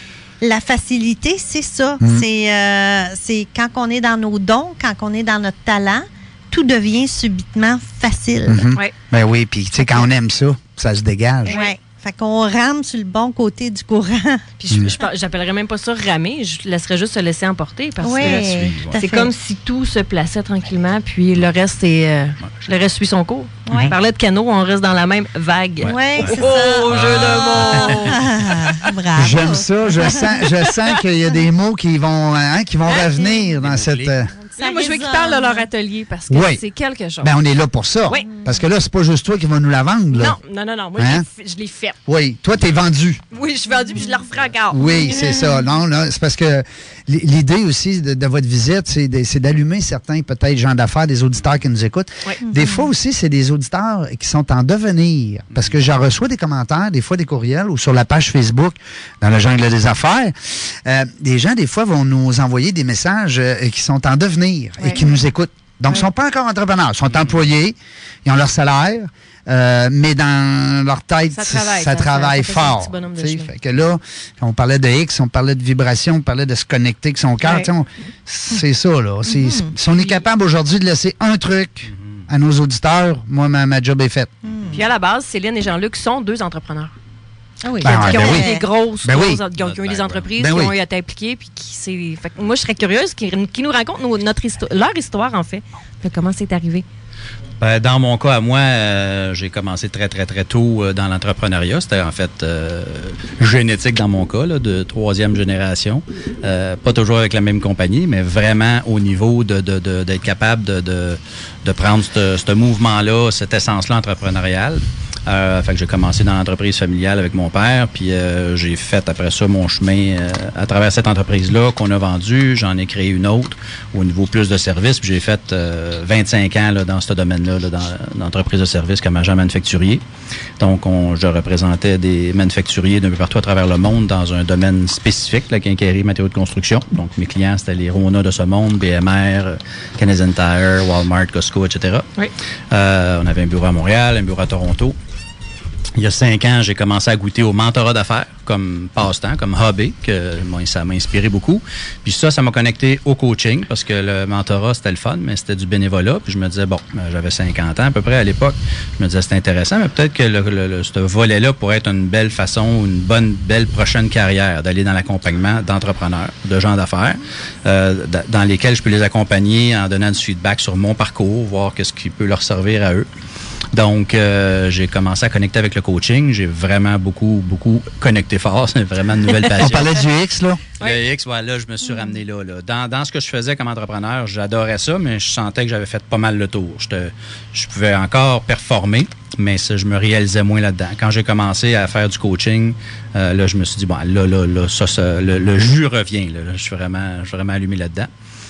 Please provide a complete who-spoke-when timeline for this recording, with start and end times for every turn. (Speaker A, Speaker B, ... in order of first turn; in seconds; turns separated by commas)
Speaker A: 0.4-8.7, Speaker B: 8.5-11.6, Speaker A: 9.8-10.1, Speaker C: 11.4-11.7, Speaker A: 11.5-14.4, Speaker C: 14.6-28.9, Speaker A: 18.0-19.3, Speaker D: 18.2-19.0, Speaker A: 23.6-23.9, Speaker D: 25.8-28.7, Speaker A: 25.8-30.3, Speaker B: 29.1-34.3, Speaker C: 30.0-30.7, Speaker D: 33.6-34.2, Speaker A: 34.4-35.7, Speaker C: 34.5-37.3, Speaker B: 36.3-36.6, Speaker B: 37.2-40.4, Speaker A: 38.2-38.6, Speaker C: 40.1-42.0, Speaker B: 41.0-41.2, Speaker B: 42.0-43.2, Speaker C: 43.3-45.2, Speaker B: 44.7-84.3, Speaker A: 44.8-45.7, Speaker A: 52.4-52.9, Speaker D: 55.5-55.9, Speaker A: 64.9-65.2, Speaker D: 67.1-67.5, Speaker C: 71.3-73.5, Speaker C: 77.4-77.7, Speaker A: 79.2-79.7, Speaker C: 79.9-80.2, Speaker D: 81.8-82.3, Speaker A: 84.4-84.8, Speaker D: 84.5-84.8, Speaker C: 84.7-86.9, Speaker A: 87.6-88.7, Speaker B: 87.8-88.5, Speaker C: 87.8-96.8, Speaker B: 89.0-89.4, Speaker D: 89.5-90.4, Speaker B: 90.4-90.7, Speaker D: 97.6-130.0, Speaker D: 130.6-142.1, Speaker D: 142.7-145.0, Speaker D: 145.9-173.1, Speaker D: 173.7-180.0, Speaker B: 179.6-180.6, Speaker D: 180.8-198.1